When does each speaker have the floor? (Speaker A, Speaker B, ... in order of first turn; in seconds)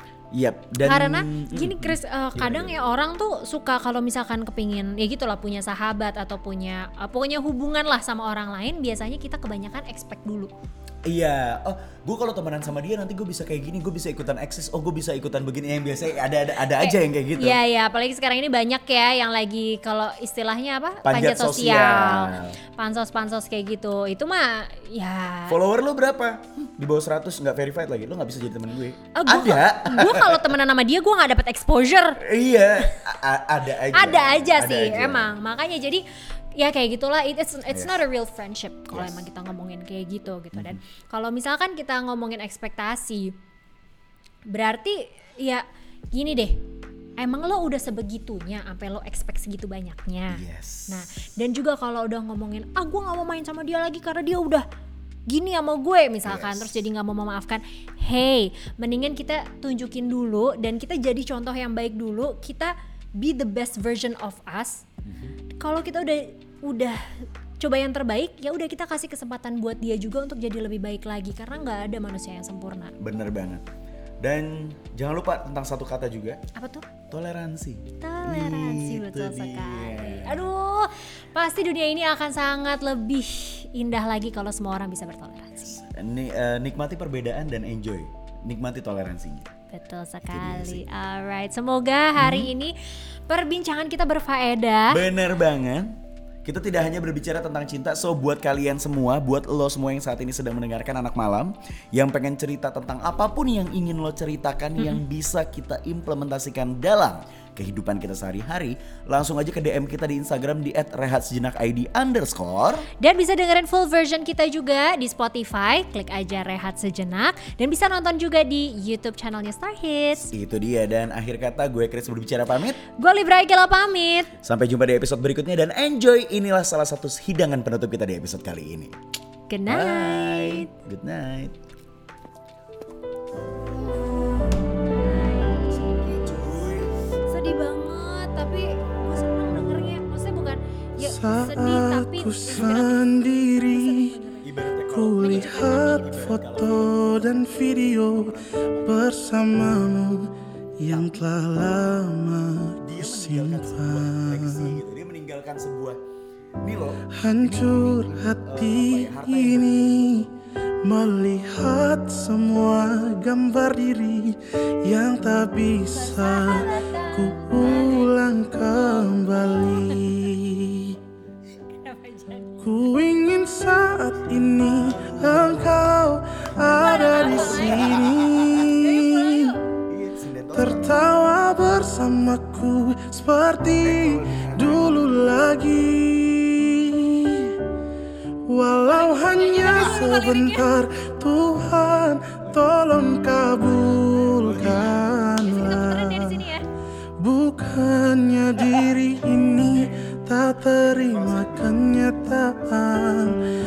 Speaker A: 0.3-2.8, 11.1-17.6, 21.0-22.6, 25.5-30.5, 32.2-35.3, 38.9-39.2, 50.3-51.1, 56.2-56.8, 65.0-65.3, 73.0-73.6, 74.2-76.4, 77.1-80.5, 85.7-89.5, 90.3-90.8, 92.2-92.5, 94.9-95.9, 96.5-112.9, 120.2-122.8, 124.4-128.9, 129.7-131.6, 135.6-137.1, 144.4-149.4, 150.9-151.3, 152.8-156.0, 156.6-160.3, 174.7-175.9, 176.6-178.8, 179.9-181.1, 183.8-185.6, 194.3-195.1, 200.8-202.0
Speaker B: 0.8-10.5, 16.7-25.6, 29.1-32.2, 33.9-36.0, 36.6-43.3, 44.5-46.6, 47.2-54.6, 55.3-64.8, 65.6-72.9, 76.6-76.9, 78.0-85.8, 89.7-92.7, 93.3-95.0, 113.0-120.3, 123.0-124.3, 129.5-130.7, 134.0-136.3, 137.3-144.5, 145.2-146.2, 165.9-168.2, 168.8-170.1, 171.7-172.9, 176.8-178.0, 178.8-179.6, 188.9-190.7, 194.5-196.7
Speaker C: 141.0-144.1, 144.9-154.8, 157.1-160.3, 160.8-171.0, 172.6-179.6, 180.5-187.6, 188.5-196.4, 197.2-203.4